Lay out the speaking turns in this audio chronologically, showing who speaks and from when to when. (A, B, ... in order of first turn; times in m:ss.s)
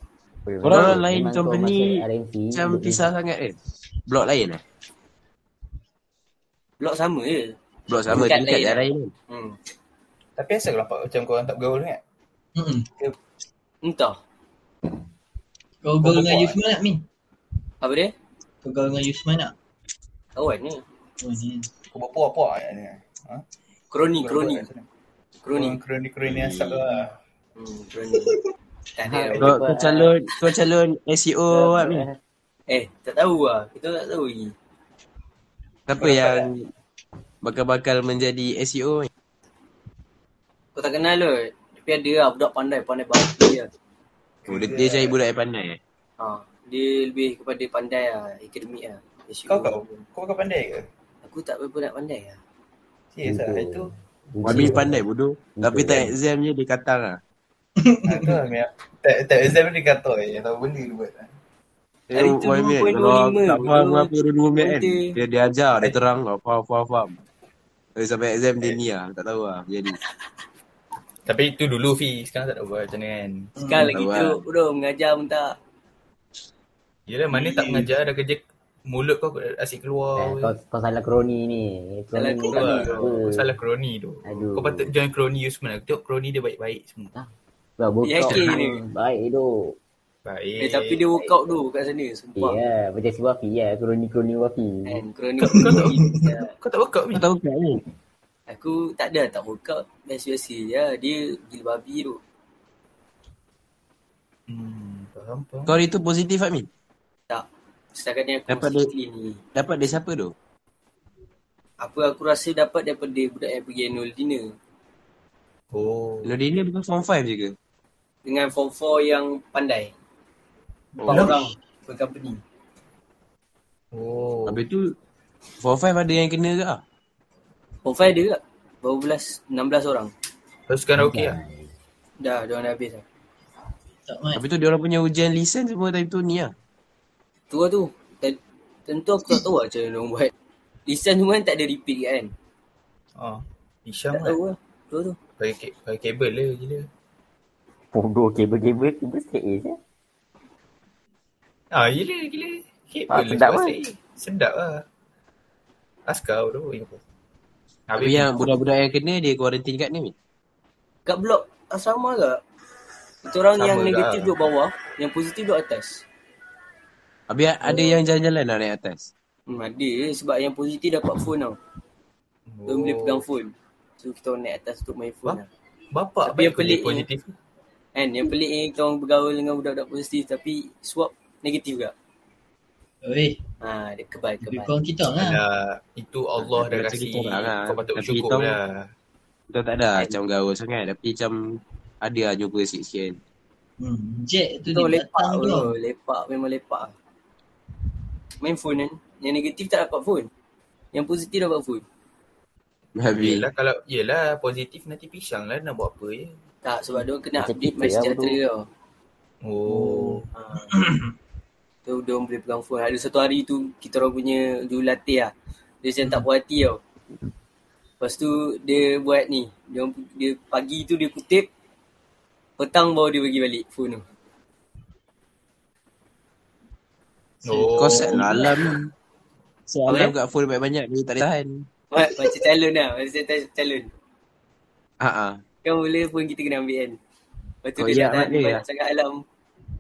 0:00.4-0:03.1 A
0:00.6-0:03.6 B
0:04.1-0:04.6 B
0:06.8-0:07.6 C
0:07.9-0:09.1 B
0:08.1-0:09.6 C
0:10.4-0:12.0 D
0:12.6-0:12.9 E
0:13.8-0:14.2 C
0:15.8-0:17.0 E
0:16.0-0:16.6 D
0:17.8-0:18.1 C
0:18.6-0:19.5 E
0:20.4-0:20.8 C
0:21.2-0:21.7 E
0:21.9-0:23.4 D
0:23.9-0:24.6 C
0:24.2-0:24.9 D
0:25.4-0:25.8 C
0:25.5-0:27.2 D
0:26.3-0:26.7 B
0:27.6-0:28.4 C
0:28.9-0:30.1 C
0:29.0-0:30.1 A
0:29.4-0:32.1 B
0:31.5-0:32.2 A
0:32.7-0:34.5 C
0:35.9-0:36.7 B
0:36.0-0:36.5 D
0:37.4-0:39.1 B
0:40.8-0:43.7 C
0:44.4-0:45.2 D
0:44.5-0:45.8 B
0:46.2-0:49.8 C
0:49.5-0:50.9 D
0:51.2-0:52.4 C
0:53.1-0:53.9 D
0:53.2-0:55.0 A
0:54.4-0:57.2 B
0:54.5-0:54.8 D
0:55.6-0:56.1 A
0:57.8-0:58.4 E
0:58.0-1:01.3 D
1:02.1-1:07.2 B
1:02.1-1:05.1 C
1:08.0-1:10.0 B
1:11.3-1:13.5 D
1:13.6-1:14.0 E
1:13.6-1:15.5 C
1:13.9-1:14.4 B
1:17.1-1:20.6 D
1:17.3-1:18.0 E
1:20.2-1:23.5 A
1:22.1-1:23.1 C
1:22.5-1:27.1 D
1:24.2-1:24.9 A
1:27.1-1:29.8 A
1:28.0-1:28.8 C
1:30.2-1:31.0 D
1:30.6-1:32.6 C
1:32.4-1:35.0 A
1:34.8-1:36.5 C
1:35.4-1:37.3 D
1:35.5-1:36.3 E
1:37.1-1:37.8 B
1:38.5-1:42.2 C
1:44.5-1:45.8 D
1:45.7-1:46.7 B
1:47.3-1:49.4 C
1:48.5-1:48.9 B
1:49.6-1:50.3 B
1:51.8-1:54.5 C
1:55.7-1:56.4 D
1:56.2-1:57.6 B
1:58.2-1:59.9 C
2:01.0-2:01.5 E
2:01.1-2:02.4 C
2:03.9-2:04.6 D
2:04.5-2:04.9 B
2:05.6-2:06.8 B
2:07.8-2:10.1 C
2:10.7-2:11.4 D
2:11.0-2:11.7 A
2:12.2-2:13.0 C
2:14.0-2:14.4 E
2:14.4-2:16.5 B
2:17.5-2:20.3 C
2:20.9-2:22.3 C
2:23.2-2:24.4 D
2:24.1-2:25.2 C
2:25.4-2:26.9 D
2:27.9-2:29.8 A
2:31.7-2:34.8 D
2:33.1-2:33.8 A
2:36.1-2:37.0 D
2:37.9-2:38.6 D
2:38.0-2:40.1 B
2:41.1-2:42.4 C
2:43.2-2:46.0 C
2:43.6-2:44.4 D
2:47.3-2:49.1 B
2:49.5-2:51.6 C
2:52.5-2:53.2 D
2:52.7-2:55.5 C
2:55.9-2:57.3 D
2:56.2-2:57.0 C
2:58.0-3:01.9 C
3:03.0-3:03.4 E
3:03.6-3:04.7 C
3:04.4-3:05.4 E
3:05.1-3:08.9 D
3:06.4-3:08.6 B
3:09.5-3:13.2 B
3:13.8-3:15.7 E
3:14.7-3:16.9 C
3:18.4-3:20.3 C
3:20.9-3:21.8 C
3:23.0-3:23.4 B
3:23.2-3:26.4 D
3:26.6-3:28.7 C
3:27.4-3:28.4 A
3:29.4-3:30.3 D
3:29.7-3:31.1 E
3:30.4-3:30.8 C
3:31.9-3:35.3 C
3:35.8-3:36.8 C
3:38.0-3:41.5 C
3:42.6-3:44.0 C
3:47.4-3:48.5 D
3:47.4-3:48.5 E
3:47.8-3:48.8 B
3:49.7-3:51.6 B
3:49.9-3:50.1 C
3:51.9-3:53.9 C
3:55.0-3:55.4 B
3:55.6-3:57.0 C
3:57.6-3:59.2 C
3:57.8-3:58.6 B